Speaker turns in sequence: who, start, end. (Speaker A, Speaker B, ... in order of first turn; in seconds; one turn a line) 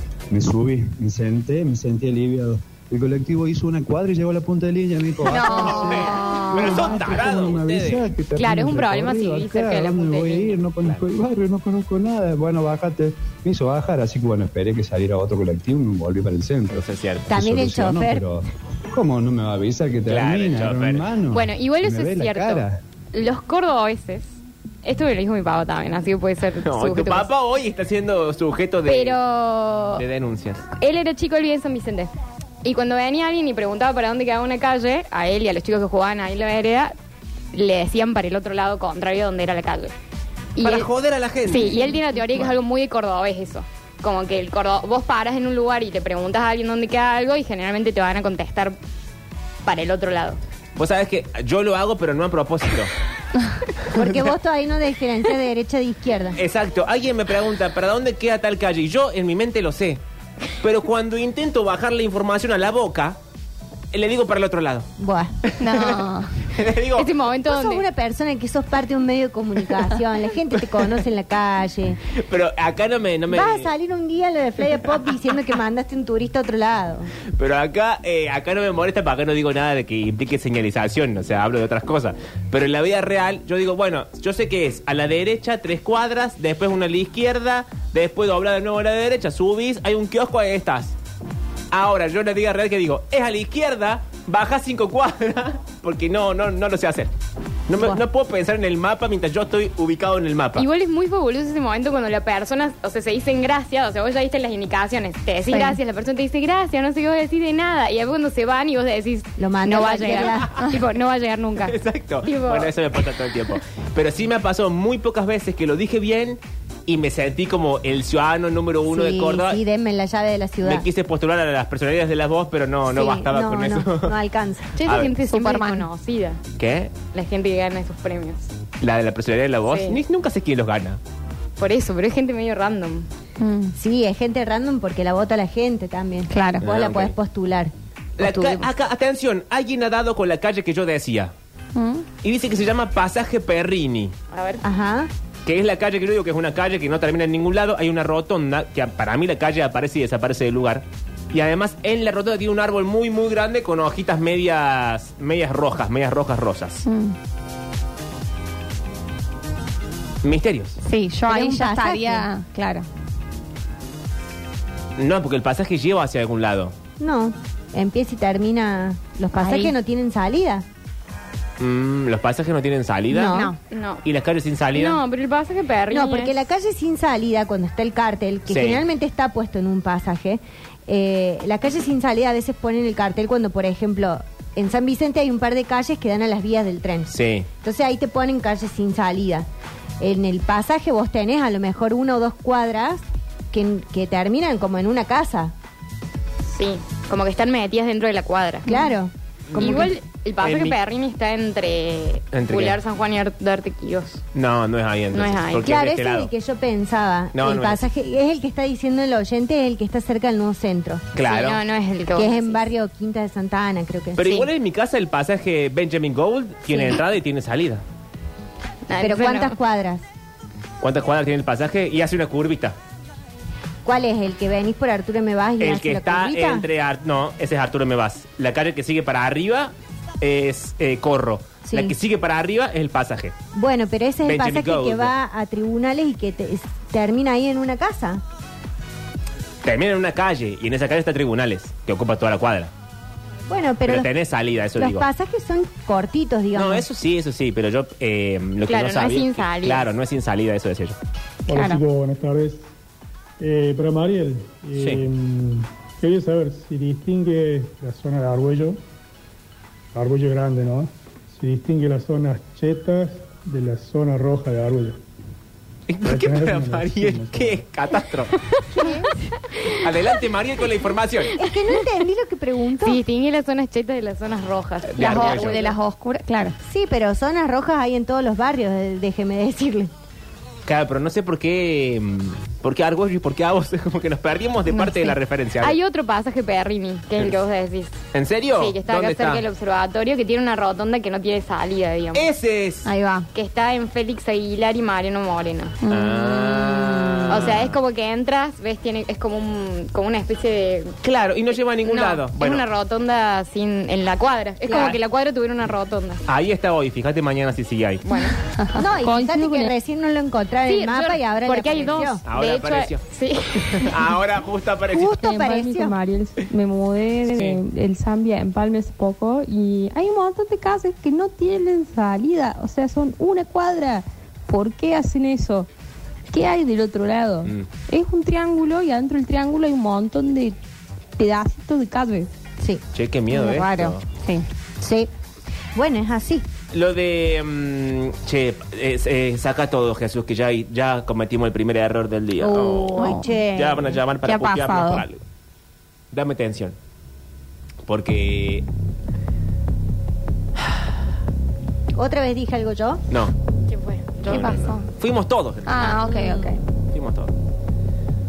Speaker A: 0.3-22.8
Speaker B: 5.3-6.9
Speaker C: 5.4-8.1
Speaker D: 8.4-10.6
Speaker C: 16.7-17.3
Speaker E: 17.3-18.3
Speaker C: 20.1-21.1
Speaker D: 21.3-24.3
Speaker D: 24.8-27.3
Speaker C: 26.6-29.2
Speaker D: 28.9-30.0
Speaker C: 30.0-30.6
Speaker D: 30.7-37.0
Speaker D: 37.5-39.9
Speaker D: 40.6-40.9
Speaker C: 40.6-42.6
Speaker D: 41.5-48.8
Speaker D: 49.6-50.4
Speaker C: 50.8-52.9
Speaker E: 53.9-56.4
Speaker C: 54.0-54.3
Speaker C: 56.4-60.0
Speaker C: 60.6-63.2
Speaker C: 63.9-64.9
Speaker E: 65.0-65.3
Speaker C: 65.5-67.1
Speaker B: 65.6-66.3
Speaker D: 67.0-67.8
Speaker E: 67.5-72.0
Speaker C: 72.1-73.7
Speaker E: 73.3-77.1
Speaker C: 77.4-91.0
Speaker C: 91.7-97.1
Speaker C: 97.7-100.7
Speaker D: 100.6-112.7
Speaker B: 105.5-105.8
Speaker E: 109.4-110.5
Speaker C: 111.6-119.6
Speaker E: 118.9-120.8
Speaker C: 120.6-124.2
Speaker E: 122.9-124.7
Speaker D: 124.8-126.4
Speaker C: 124.8-125.1
Speaker B: 125.3-125.9
Speaker C: 126.6-126.9
Speaker D: 127.1-128.5
Speaker C: 128.8-131.0
Speaker D: 129.7-130.0
Speaker D: 131.6-133.1
Speaker B: 133.4-133.7
Speaker E: 133.8-137.7
Speaker B: 136.3-136.6
Speaker C: 136.6-137.1
Speaker C: 138.2-141.3
Speaker D: 138.2-138.7
Speaker B: 141.8-142.1
Speaker C: 142.2-144.2
Speaker D: 144.3-144.6
Speaker E: 144.6-145.1
Speaker C: 145.4-156.8
Speaker B: 156.8-157.2
Speaker C: 160.2-160.8
Speaker B: 160.8-162.9
Speaker E: 161.3-162.3
Speaker C: 165.0-166.7
Speaker E: 167.0-170.6
Speaker B: 169.4-169.7
Speaker C: 171.6-173.4
Speaker E: 173.1-173.5
Speaker B: 173.3-173.6
Speaker D: 173.7-174.0
Speaker C: 174.0-175.0
Speaker D: 174.8-176.3
Speaker E: 175.9-187.1
Speaker C: 178.5-178.8
Speaker C: 187.1-187.5
Speaker E: 187.6-189.5
Speaker E: 190.0-195.5
Speaker D: 196.5-198.7
Speaker E: 198.7-199.9
Speaker C: 199.5-200.8
Speaker D: 199.6-204.2
Speaker C: 202.3-202.8
Speaker C: 204.3-206.3
Speaker D: 205.1-205.7
Speaker E: 205.6-211.1
Speaker C: 207.3-207.8
Speaker C: 211.2-211.6
Speaker D: 211.2-212.6
Speaker E: 212.2-214.5
Speaker C: 214.2-217.8
Speaker D: 218.9-219.6
Speaker E: 219.0-220.0
Speaker C: 220.8-222.8
Speaker E: 223.8-226.7
Speaker C: 225.6-233.3
Speaker E: 231.6-231.9
Speaker E: 233.5-238.2
Speaker C: 234.3-235.1
Speaker C: 239.7-242.7
Speaker E: 243.5-244.1
Speaker C: 243.8-245.1
Speaker E: 244.8-246.8
Speaker C: 246.6-251.0
Speaker D: 248.7-249.9
Speaker F: 251.5-252.7
Speaker B: 251.5-251.8
Speaker F: 253.4-258.8
Speaker C: 254.8-255.0
Speaker F: 259.9-265.0
Speaker C: 265.9-268.3
Speaker F: 266.0-267.6
Speaker E: 268.7-269.1
Speaker C: 269.7-271.4
Speaker E: 271.4-273.0
Speaker D: 272.8-275.8
Speaker C: 274.9-275.6
Speaker B: 275.0-276.6
Speaker E: 276.6-279.9
Speaker C: 280.7-285.8
Speaker B: 284.7-285.1
Speaker D: 285.6-288.0
Speaker C: 288.1-289.4
Speaker D: 288.6-292.3
Speaker C: 292.1-292.9
Speaker B: 292.9-293.3
Speaker D: 293.3-295.8
Speaker B: 295.8-297.5
Speaker C: 295.9-297.8
Speaker D: 297.3-300.9
Speaker C: 301.0-302.7
Speaker D: 301.9-306.2
Speaker C: 304.6-305.0
Speaker C: 306.3-308.1
Speaker D: 308.1-308.4
Speaker B: 308.6-309.7
Speaker E: 308.8-312.2
Speaker D: 310.7-313.9
Speaker C: 312.2-313.0
Speaker C: 313.6-315.2
Speaker E: 314.9-316.0
Speaker G: 315.2-325.7
Speaker C: 317.3-317.6
Speaker G: 326.3-330.6
Speaker G: 331.2-332.3
Speaker C: 332.9-334.1
Speaker B: 333.3-334.4
Speaker E: 334.8-335.1
Speaker E: 335.8-336.4
Speaker C: 336.7-345.2
Speaker E: 342.4-344.0
Speaker B: 342.9-343.3
Speaker B: 344.2-345.0
Speaker C: 346.1-346.8
Speaker C: 347.9-348.6
Speaker E: 352.0-353.0
Speaker D: 353.7-354.2
Speaker B: 354.2-354.9
Speaker C: 354.2-356.1
Speaker B: 355.7-356.6
Speaker E: 356.1-356.5
Speaker C: 356.9-357.3